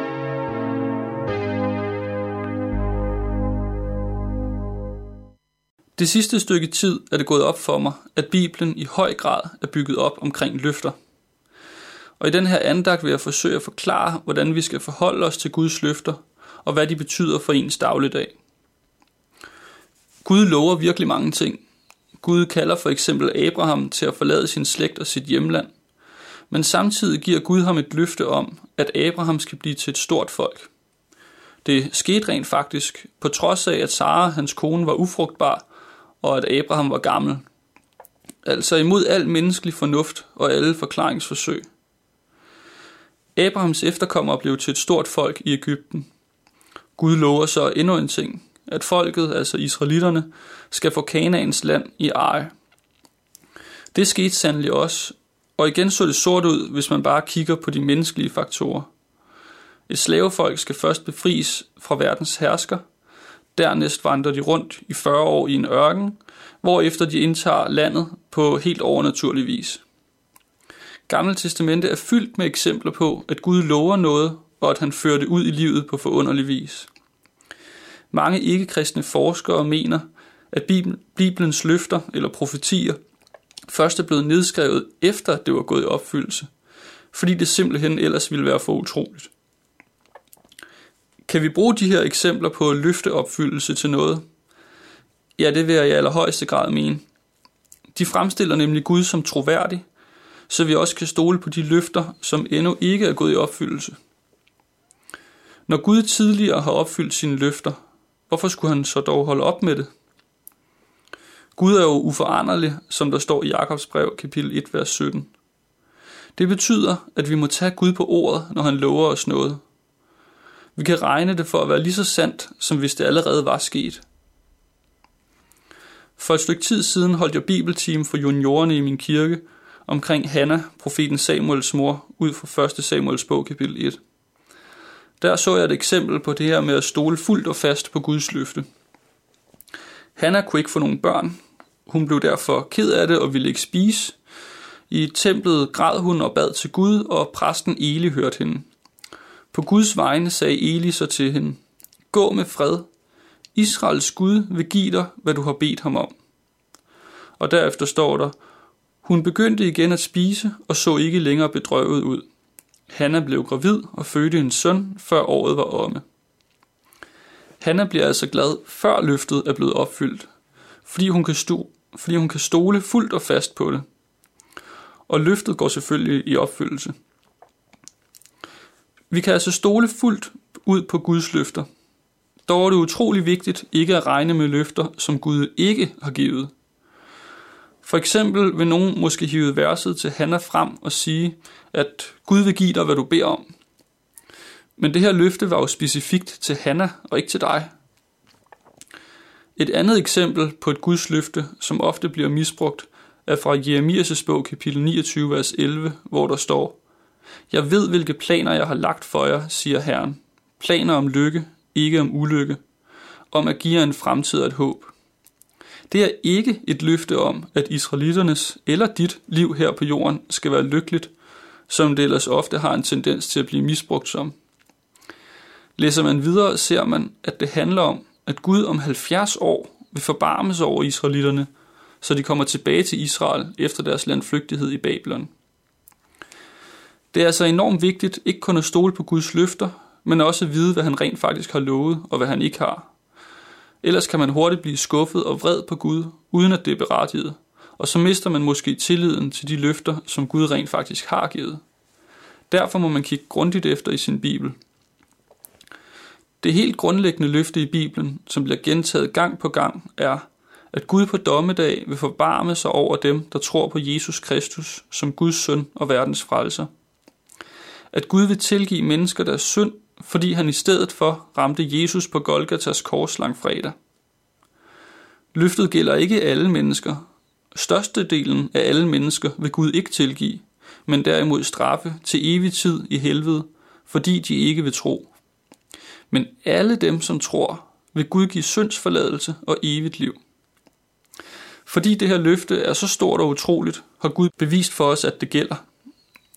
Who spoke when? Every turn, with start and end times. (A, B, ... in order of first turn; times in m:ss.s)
0:06.0-0:10.9 A
0:12.2-0:18.3 A
0:20.2-0:21.6 A
0:22.2-0:25.7 A
0:26.5-0:30.7 A
0:31.6-0:35.6 A
0:36.2-0:37.4 A
0:38.4-0:41.6 A
0:43.4-0:46.1 A
0:47.0-0:52.5 A
0:53.9-0:58.9 A
0:59.9-1:02.8 A
1:03.5-1:09.8 A
1:11.1-1:16.9 A
1:18.1-1:23.0 A
1:23.7-1:26.5 A
1:27.1-1:29.3 A
1:31.3-1:34.2 A
1:35.4-1:37.0 A
1:37.9-1:39.8 A
1:40.5-1:44.0 A
1:45.7-1:47.8 A
1:48.3-1:49.9 A
1:51.6-1:55.3 A
1:56.4-1:59.6 A
2:00.8-2:04.0 A
2:06.2-2:14.0 A
2:15.2-2:18.6 A
2:20.2-2:24.2 A
2:24.9-2:28.7 A
2:29.5-2:31.6 A
2:32.1-2:32.9 A
2:33.5-2:36.1 A
2:37.4-2:38.4 A
2:39.0-2:42.2 A
2:42.9-2:46.0 A
2:47.6-2:50.3 A
2:50.8-2:53.8 A
2:55.1-2:56.9 A
2:59.1-3:01.6 A
3:02.4-3:06.5 A
3:07.8-3:13.4 A
3:14.8-3:17.7 A
3:19.6-3:26.8 A
3:27.5-3:32.6 A
3:33.3-3:34.9 A
3:35.9-3:41.1 A
3:41.7-3:44.3 A
3:45.8-3:51.5 A
3:52.0-3:55.3 A
3:57.1-4:02.9 A
4:03.8-4:11.6 A
4:12.5-4:14.5 A
4:16.4-4:26.7 A
4:27.9-4:33.7 A
4:35.3-4:37.0 A
4:37.5-4:45.1 A
4:46.1-4:50.2 A
4:51.6-4:55.6 A